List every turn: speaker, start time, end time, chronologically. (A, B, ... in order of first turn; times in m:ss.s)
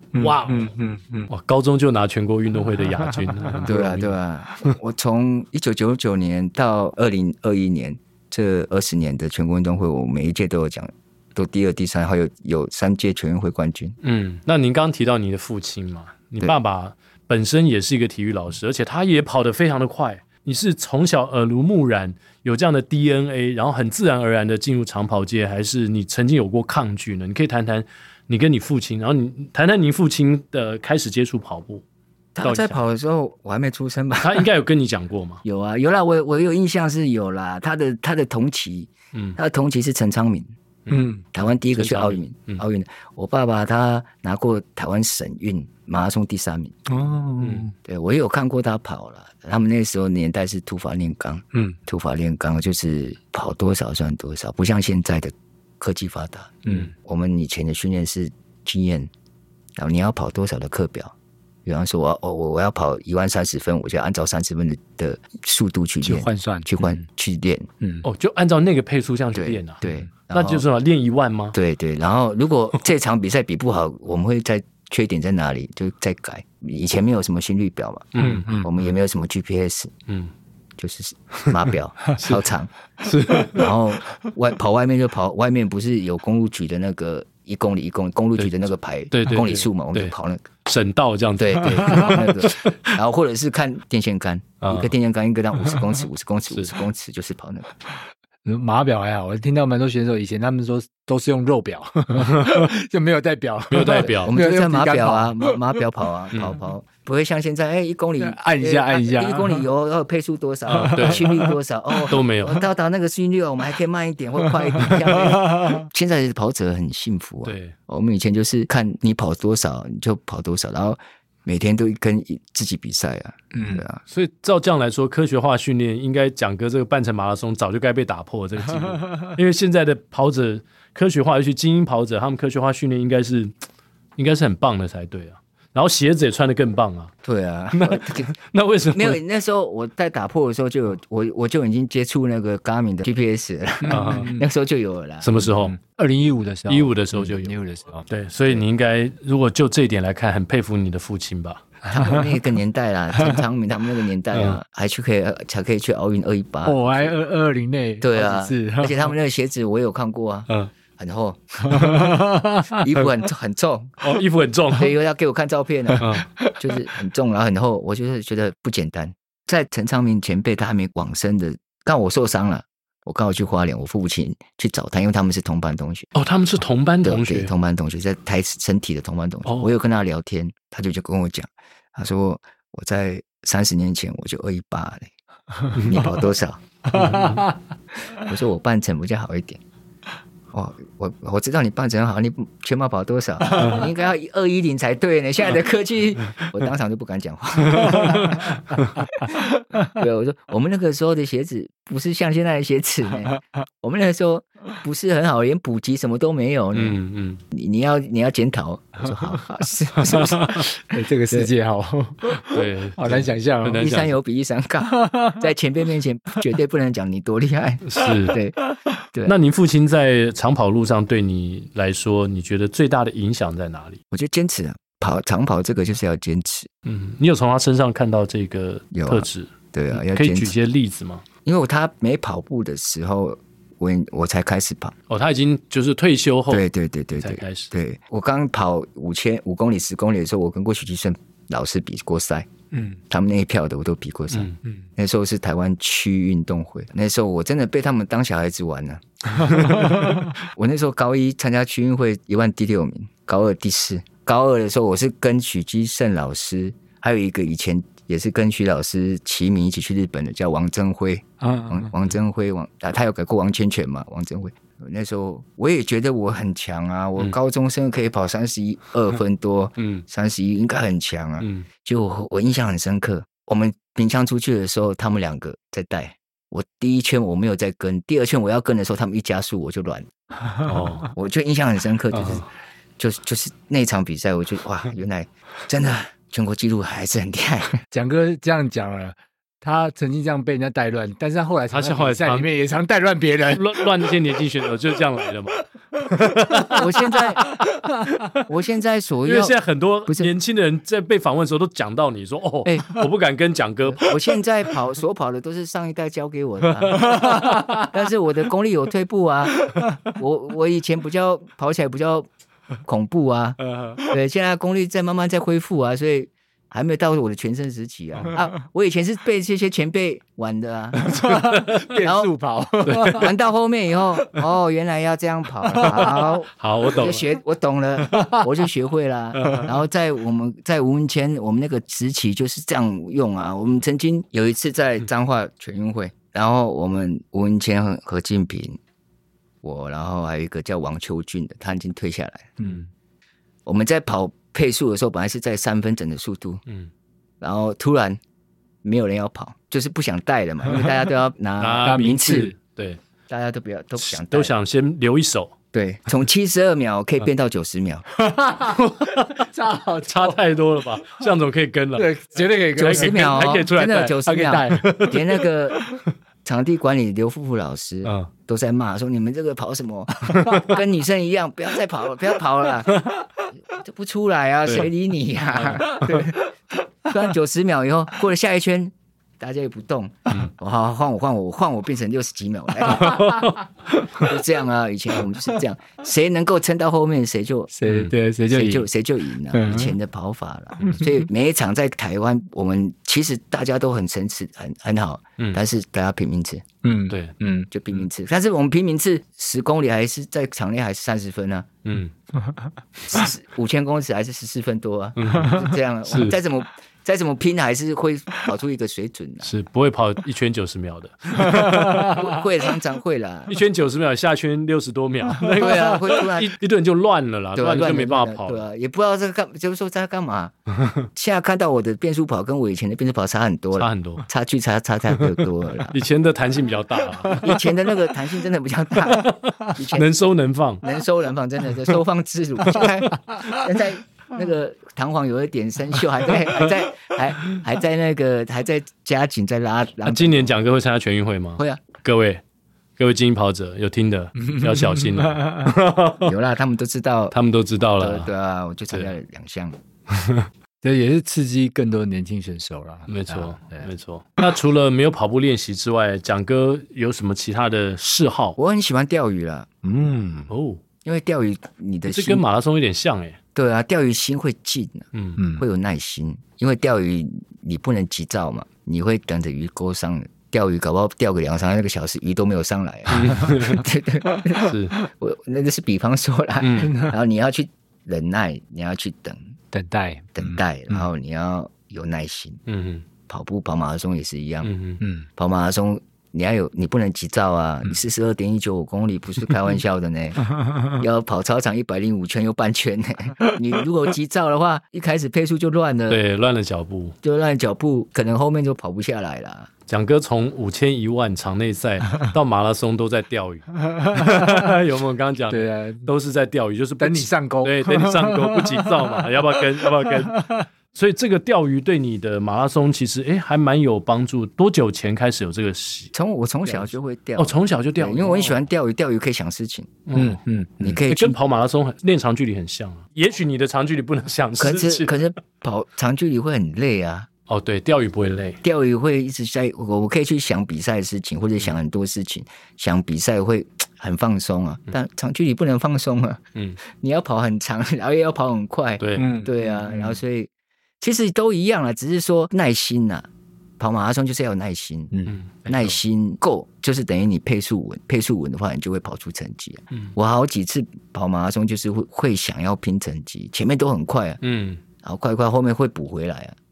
0:00.1-0:01.3 A
0:00.2-0:00.8 B
0:01.3-0:04.1 B
0:03.6-0:14.0 C
0:14.0-0:31.8 B
0:32.4-0:34.5 C
0:32.4-0:32.8 B
0:34.2-0:35.4 B
0:35.4-0:40.5 C
0:40.9-0:41.2 A
0:41.3-0:46.9 C
0:41.7-0:42.6 B
0:46.9-0:47.7 A
0:47.4-0:47.7 B
0:47.8-0:59.1 C
0:56.6-0:56.9 A
0:59.8-1:01.1 C
1:01.6-1:07.7 C
1:06.0-1:06.7 A
1:08.0-1:11.6 B
1:09.3-1:10.6 C
1:11.5-1:19.9 C
1:18.1-1:18.5 B
1:18.2-1:18.7 A
1:20.8-1:22.7 C
1:22.2-1:22.4 B
1:23.0-1:23.7 B
1:23.5-1:30.5 C
1:29.1-1:30.1 B
1:30.6-1:32.9 B
1:31.4-1:37.7 C
1:34.6-1:34.9 B
1:36.5-1:36.8 B
1:38.4-1:45.8 A
1:42.2-1:42.7 B
1:43.7-1:44.3 B
1:44.0-2:04.0 C
1:46.3-1:46.6 B
1:48.2-1:49.7 A
1:50.7-1:51.3 B
1:50.8-1:51.5 A
1:52.1-1:52.6 B
1:54.8-1:55.8 A
1:57.4-1:57.7 B
2:03.5-2:03.8 A
2:04.1-2:13.5 B
2:14.2-2:17.1 B
2:17.2-2:18.3 C
2:17.7-2:19.2 B
2:18.9-2:25.4 C
2:23.8-2:24.5 A
2:23.9-2:24.3 B
2:25.2-2:25.8 B
2:25.7-2:28.1 A
2:26.7-2:27.6 B
2:28.1-2:31.6 B
2:31.9-2:37.1 C
2:32.0-2:32.3 A
2:34.3-2:34.6 B
2:36.6-2:39.1 A
2:38.0-2:42.1 C
2:41.7-2:42.8 A
2:42.7-2:44.0 C
2:44.0-2:44.9 B
2:44.7-2:56.1 C
2:46.0-2:46.3 B
2:56.2-2:57.5 B
2:57.0-3:05.1 C
2:59.5-2:59.7 B
3:05.8-3:07.2 C
3:06.9-3:07.5 A
3:06.9-3:07.4 B
3:08.2-3:09.6 C
3:10.5-3:18.5 C
3:17.8-3:18.9 B
3:19.0-3:19.3 A
3:19.2-3:27.0 C
3:26.7-3:27.4 B
3:27.5-3:30.7 C
3:30.0-3:30.7 B
3:30.8-3:33.9 A
3:32.4-3:34.2 B
3:33.8-3:38.6 C
3:34.9-3:35.3 A
3:37.8-3:38.4 B
3:39.2-3:44.0 B
3:44.1-3:46.7 C
3:46.8-3:51.2 B
3:48.9-3:50.5 C
3:51.4-3:55.0 C
3:55.1-3:57.7 B
3:56.5-4:02.5 C
4:02.7-4:03.0 A
4:03.1-4:40.1 C
4:04.3-4:04.6 B
4:09.5-4:10.3 A
4:21.4-4:21.9 A
4:29.8-4:30.0 B
4:31.4-4:31.7 B
4:40.6-4:41.1 B
4:41.1-4:42.4 C
4:42.1-4:42.5 B
4:43.0-4:47.8 C
4:47.9-4:53.9 A
4:51.7-4:52.5 B
4:53.5-4:58.4 B
4:56.7-4:57.4 C
4:58.5-5:00.3 C
4:59.2-5:04.2 B
5:02.6-5:03.0 C
5:03.9-5:12.3 C
5:06.9-5:07.4 B
5:07.1-5:07.8 A
5:12.8-5:22.3 C
5:21.0-5:23.3 A
5:21.2-5:21.9 B
5:22.8-5:23.3 B
5:22.9-5:38.8 C
5:25.8-5:27.3 B
5:29.4-5:29.7 B
5:39.6-5:42.6 C
5:42.6-5:42.9 A
5:43.7-5:46.6 C
5:47.4-5:48.2 C
5:48.8-5:52.5 C
5:51.6-5:53.0 B
5:51.9-5:52.5 A
5:53.3-5:54.6 C
5:54.0-5:55.6 B
5:55.7-5:58.0 C
5:58.2-5:58.8 A
5:58.7-5:59.5 B
5:59.4-6:00.4 A
6:00.1-6:02.1 B
6:02.0-6:05.0 A
6:02.8-6:05.2 B
6:02.8-6:05.8 C
6:06.4-6:13.1 C
6:08.0-6:08.3 B
6:10.3-6:10.7 B
6:13.7-6:16.4 C
6:15.6-6:16.2 B
6:17.0-6:23.3 C
6:22.9-6:24.2 B
6:24.1-6:27.7 C
6:27.7-6:28.9 A
6:27.9-6:28.1 B
6:28.5-6:36.6 C
6:29.5-6:30.0 A
6:36.8-6:37.7 A
6:37.1-6:37.4 B
6:37.7-6:41.7 C
6:41.8-6:42.1 B
6:43.1-6:49.5 C
6:45.2-6:46.4 B
6:49.4-6:52.3 B
6:52.0-6:53.6 C
6:53.5-6:58.6 B
6:55.5-6:56.6 C
6:57.6-7:06.0 C
7:03.8-7:04.2 B
7:05.8-7:07.6 B
7:07.3-7:10.2 C
7:09.0-7:10.8 B
7:10.8-7:20.6 C
7:20.1-7:22.4 B
7:23.0-7:26.3 B
7:24.4-7:25.7 A
7:26.2-7:27.4 C
7:27.3-7:28.3 B
7:28.0-7:29.8 C
7:30.2-7:30.5 B
7:30.8-7:33.9 A
7:33.1-7:38.6 B
7:38.6-7:39.7 C
7:39.8-7:40.5 A
7:40.5-7:40.8 B
7:41.0-7:42.4 C
7:42.1-7:43.4 B
7:43.6-7:59.5 C
7:45.1-7:45.4 B
7:45.4-7:45.6 A
7:53.1-7:53.8 B
7:54.6-7:55.0 B
7:56.6-7:56.9 B
7:56.8-7:57.1 A
7:59.7-8:01.0 A
8:00.4-8:02.6 C
8:02.7-8:03.0 B
8:03.3-8:04.7 C
8:04.6-8:05.0 B
8:05.0-8:05.3 A
8:05.4-8:16.2 C
8:16.1-8:17.2 B
8:17.2-8:19.7 C
8:19.9-8:36.1 B
8:23.9-8:24.7 A
8:25.5-8:26.1 A
8:27.0-8:29.3 A
8:29.9-8:30.6 A
8:36.1-8:40.1 C
8:37.4-8:38.6 B
8:40.1-8:45.2 B
8:40.2-8:40.8 A
8:40.8-8:41.4 C
8:44.6-8:47.3 C
8:47.5-8:48.6 B
8:48.6-9:00.5 C
8:59.0-8:59.3 B
8:59.2-9:00.2 A
9:01.0-9:03.3 C
9:03.8-9:05.1 C
9:05.3-9:06.0 B
9:05.7-9:14.4 C
9:14.4-9:14.8 B
9:15.0-9:16.6 C